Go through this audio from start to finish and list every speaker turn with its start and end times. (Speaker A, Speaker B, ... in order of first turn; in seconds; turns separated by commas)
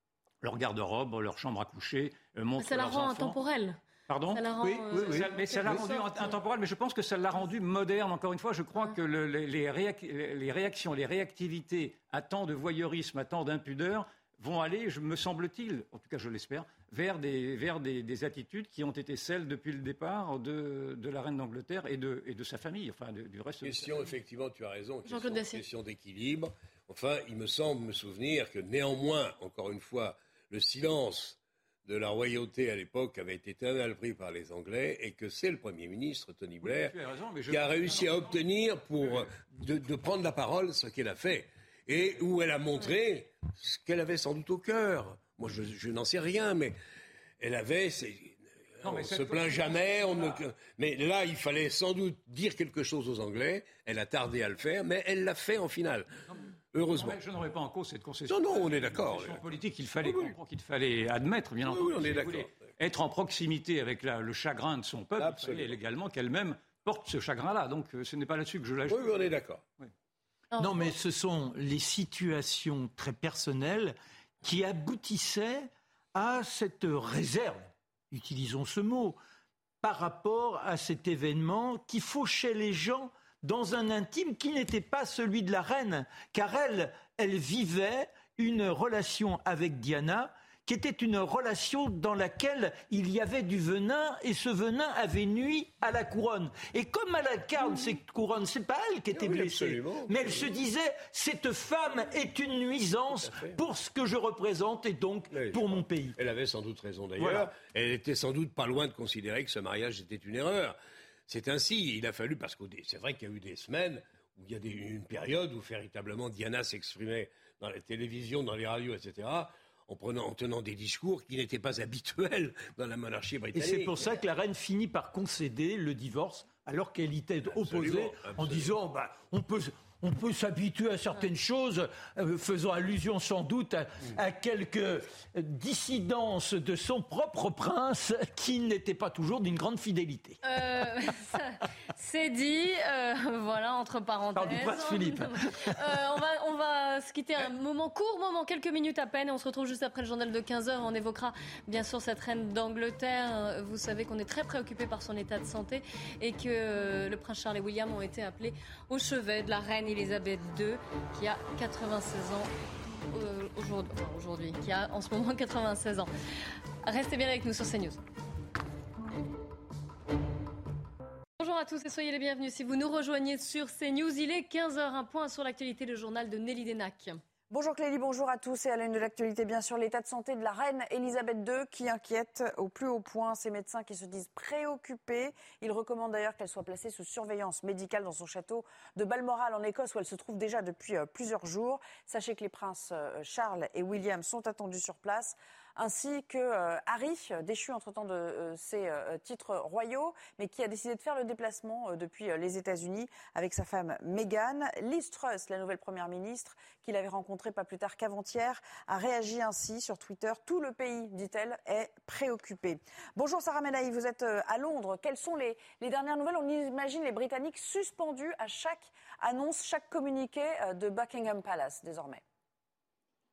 Speaker A: 0.4-3.4, Speaker B: 2.6-3.8, Speaker A: 4.1-24.1, Speaker B: 4.3-6.3, Speaker C: 23.6-37.0, Speaker B: 25.1-25.6, Speaker A: 36.6-38.4, Speaker C: 37.5-46.8, Speaker C: 47.4-56.1, Speaker A: 48.8-50.4, Speaker C: 56.7-57.2, Speaker A: 56.9-69.1, Speaker C: 58.3-59.4, Speaker C: 60.0-60.4, Speaker C: 61.7-62.7, Speaker C: 65.2-65.8, Speaker C: 68.9-69.6, Speaker B: 70.5-70.9, Speaker D: 70.6-79.2, Speaker D: 79.8-106.2, Speaker C: 99.1-100.5, Speaker C: 103.2-103.6, Speaker C: 105.3-124.2, Speaker D: 107.2-107.5, Speaker D: 123.5-140.4, Speaker C: 127.5-128.7, Speaker B: 140.4-162.5, Speaker D: 144.4-145.7, Speaker B: 163.1-166.1, Speaker B: 166.8-168.0, Speaker B: 171.4-177.2, Speaker E: 177.5-222.2